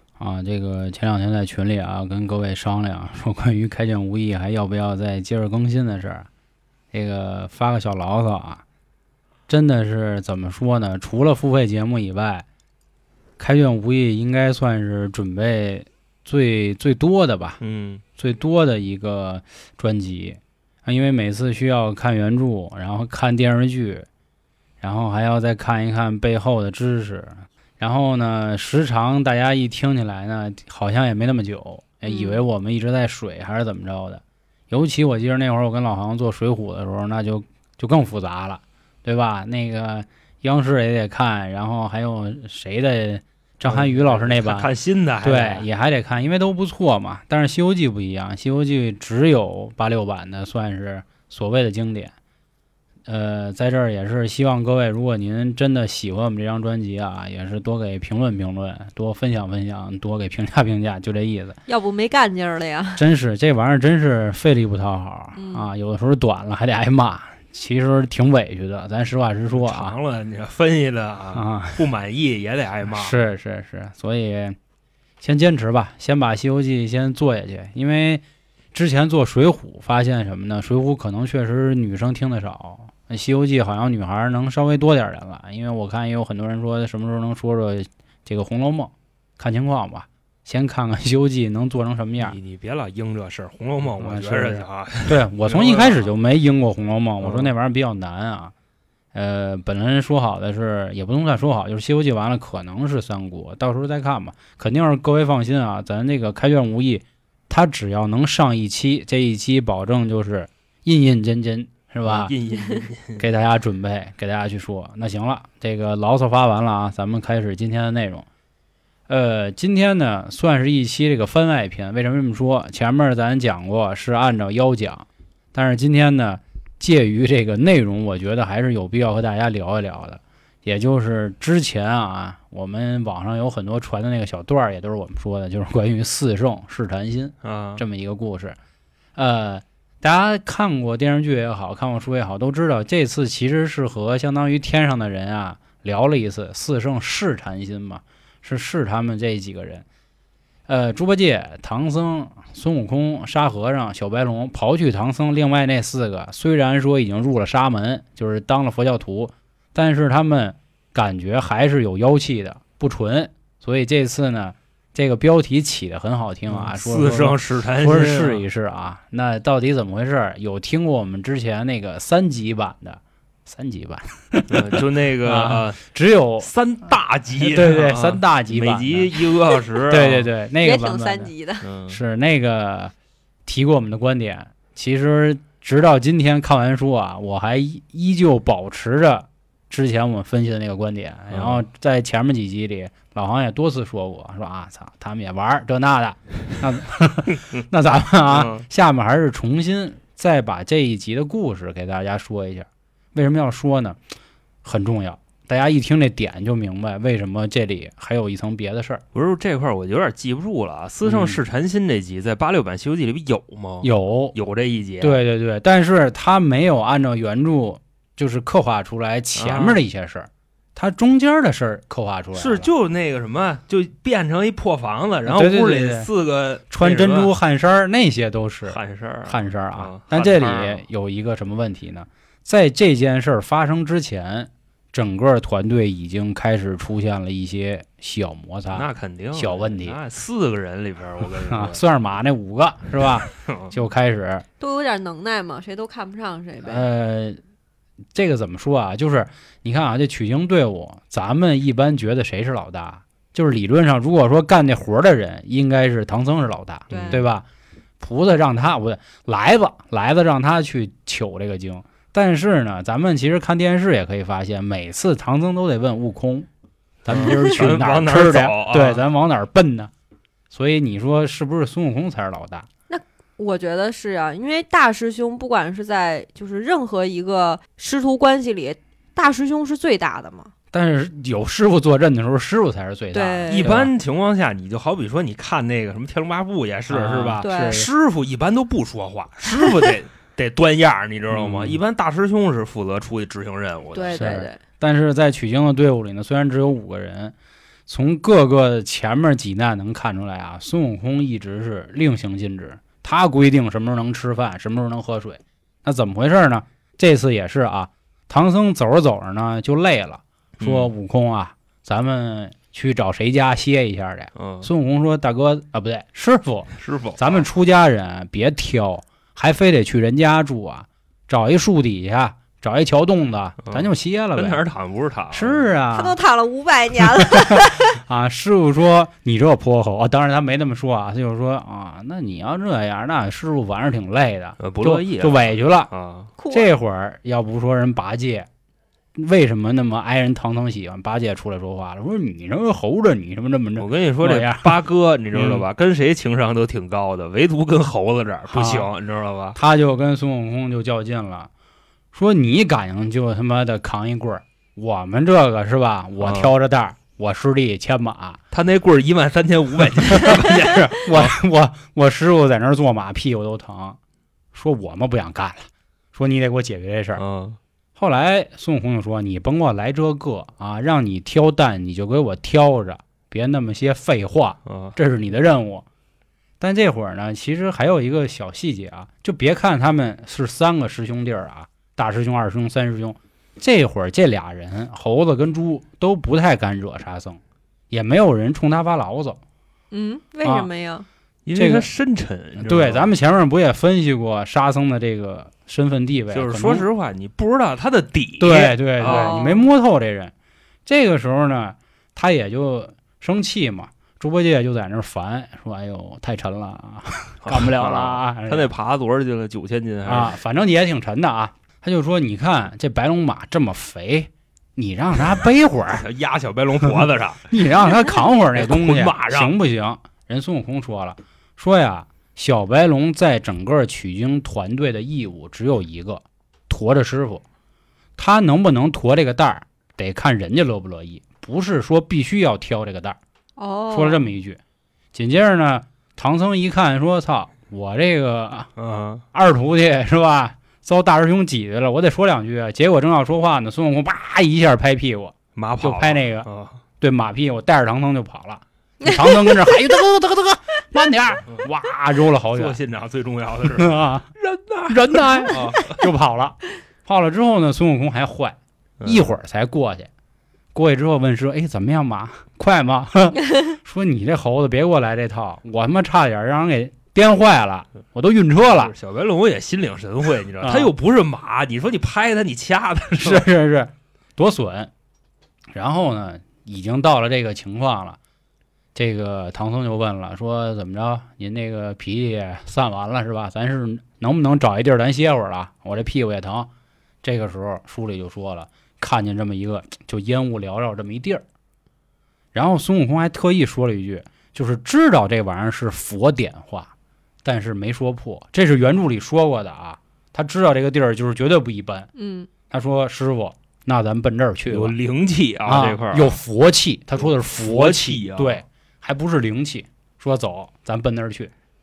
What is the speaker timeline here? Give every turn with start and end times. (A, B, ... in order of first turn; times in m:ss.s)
0:00.2-0:06.3 A
0:06.9-0:08.6 A
0:09.5-0:12.4 A
0:13.4-0:17.6 A
0:17.6-0:18.0 B
0:18.2-0:24.1 A
0:24.8-0:44.7 A
0:32.1-0:32.4 C
0:43.6-0:45.7 B
0:45.2-0:52.1 A
0:53.1-1:01.6 A
1:01.7-1:03.0 C
1:03.0-1:10.0 A
1:05.3-1:05.6 C
1:09.5-1:13.1 B
1:11.3-1:11.8 A
1:12.9-1:14.6 A
1:15.2-1:18.2 A
1:18.7-1:32.4 A
1:32.2-1:36.1 B
1:34.0-1:38.5 A
1:37.2-1:37.5 B
1:39.1-1:52.3 A
1:52.0-1:53.2 B
1:53.2-1:58.2 A
1:59.1-2:18.6 A
2:17.4-2:17.8 B
2:19.2-2:29.8 A
2:30.7-2:56.5 A
2:46.5-2:48.4 B
2:54.5-2:55.8 B
2:56.4-3:00.3 B
2:57.4-2:59.1 A
2:59.9-3:01.3 A
3:00.6-3:01.7 C
3:01.6-3:02.0 B
3:01.9-3:02.9 A
3:03.4-3:24.0 A
3:11.3-3:11.6 B
3:18.2-3:18.6 B
3:24.6-3:29.0 A
3:29.1-3:35.2 B
3:31.0-3:31.4 A
3:33.8-3:34.3 A
3:35.0-3:42.7 A
3:39.4-3:39.8 B
3:42.3-3:47.3 B
3:45.2-3:46.1 A
3:46.7-4:00.0 A
3:48.7-3:50.8 B
3:58.7-4:01.8 B
4:01.5-4:04.4 A
4:03.4-4:03.7 B
4:04.6-4:06.8 C
4:06.6-4:07.4 A
4:08.1-4:17.4 A
4:16.9-4:17.2 B
4:16.9-4:17.2 C
4:18.0-4:26.5 A
4:27.0-4:29.9 A
4:27.1-4:29.0 B
4:30.5-4:32.7 A
4:32.9-4:40.5 C
4:40.7-4:43.9 A
4:43.1-4:43.7 C
4:43.5-4:54.4 B
4:46.9-4:47.9 A
4:47.4-4:47.8 C
4:51.3-4:51.8 A
4:53.9-4:54.6 C
4:54.1-4:57.3 A
4:57.9-5:24.6 A
5:10.6-5:10.9 B
5:14.4-5:14.7 B
5:16.8-5:17.4 B
5:23.6-5:25.7 B
5:25.3-5:26.2 A
5:25.9-5:27.9 C
5:27.2-5:35.9 A
5:34.6-5:36.3 B
5:36.4-5:36.7 C
5:36.5-5:38.5 A
5:39.2-5:44.7 A
5:43.8-5:49.6 B
5:45.3-5:45.6 A
5:48.5-5:48.9 A
5:49.5-5:51.5 A
5:52.1-5:58.4 A
5:56.2-5:56.5 B
5:58.5-6:01.4 B
6:00.1-6:04.0 A
6:04.5-6:07.2 A
6:07.2-6:07.6 B
6:08.0-6:15.8 A
6:14.6-6:14.9 B
6:16.6-6:27.4 A
6:27.9-6:29.4 A
6:29.9-6:31.0 C
6:31.4-6:33.1 B
6:31.5-6:31.9 A
6:32.6-6:36.8 A
6:36.3-6:39.4 B
6:38.4-6:40.3 A
6:39.0-6:39.7 C
6:40.8-6:48.7 A
6:47.4-6:50.3 B
6:50.0-6:56.0 A
6:55.9-6:57.4 B
6:56.8-7:07.4 A
6:58.5-6:59.5 B
7:08.2-7:13.2 A
7:13.6-7:14.3 C
7:13.9-7:14.6 A
7:15.1-7:18.7 A
7:18.8-7:19.2 B
7:19.3-7:26.5 A
7:25.5-7:26.8 B
7:27.0-7:32.8 A
7:29.0-7:29.7 C
7:32.5-7:36.0 B
7:33.7-7:34.3 A
7:34.9-7:40.1 A
7:39.0-7:39.3 B
7:40.7-7:48.9 A
7:48.6-7:53.5 B
7:50.6-7:50.9 A
7:53.1-7:54.9 A
7:55.7-7:58.2 A
7:58.9-8:06.7 A
8:07.2-8:11.4 A
8:12.5-8:16.9 A
8:17.4-8:22.1 A
8:22.2-8:22.5 C
8:22.7-8:25.0 A
8:24.7-8:26.4 B
8:25.6-8:31.5 A
8:27.2-8:28.6 B